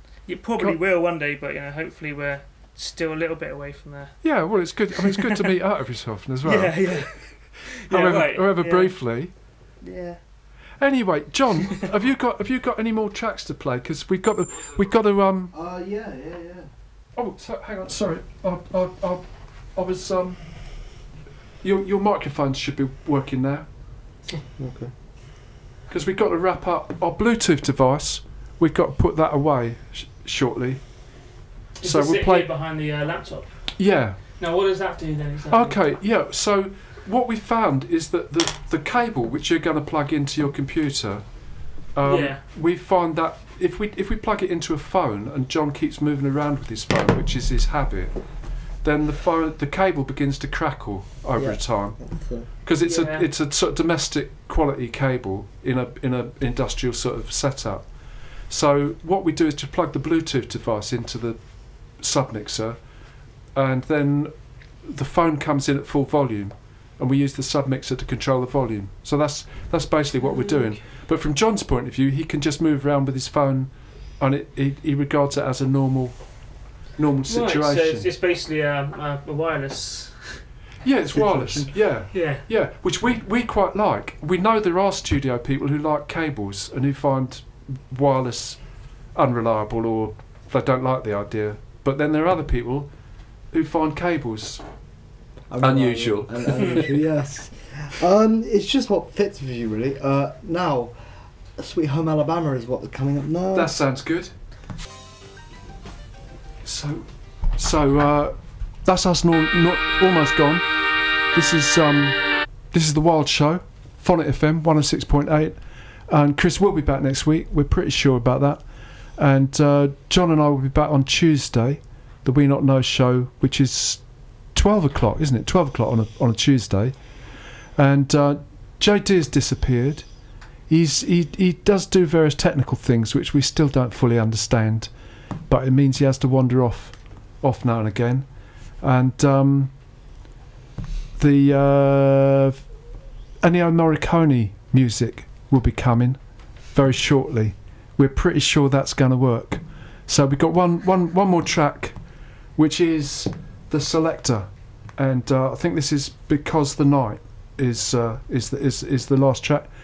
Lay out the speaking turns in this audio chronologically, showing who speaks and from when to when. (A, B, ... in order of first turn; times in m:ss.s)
0:00.3-0:04.2 A
0:04.2-0:07.2 B
0:05.0-0:05.5 A
0:06.4-0:09.0 A
0:07.8-0:09.3 B
0:09.8-0:10.2 A
0:10.8-0:15.5 B
0:15.5-0:16.7 C
0:17.2-0:20.4 B
0:21.6-0:23.7 B
0:24.6-0:24.9 C
0:25.9-0:30.8 B
0:31.8-0:33.5 A
0:31.8-0:32.5 B
0:33.8-0:34.2 B
0:34.4-0:35.8 A
0:35.5-0:41.2 B
0:42.0-0:48.2 B
0:42.0-0:42.4 A
0:48.8-0:57.9 B
0:51.4-0:52.5 C
0:52.8-0:53.3 A
0:58.5-1:01.4 B
1:02.0-1:02.8 B
1:03.6-1:16.2 B
1:17.0-1:18.1 B
1:17.3-1:20.4 A
1:20.8-1:28.6 B
1:21.2-1:21.7 C
1:22.1-1:22.5 A
1:29.2-1:32.9 B
1:33.5-1:34.6 B
1:35.5-1:41.0 C
1:35.6-1:36.9 B
1:41.6-1:43.7 C
1:43.5-1:44.3 B
1:46.6-1:50.7 B
1:51.3-1:52.2 B
1:52.7-1:58.6 B
1:59.2-2:04.0 B
2:04.5-2:07.0 B
2:07.8-2:10.1 B
2:10.7-2:14.9 B
2:15.5-2:18.3 B
2:18.8-2:19.7 B
2:21.2-2:22.6 B
2:23.4-2:26.2 B
2:26.7-2:32.0 B
2:32.6-2:39.7 B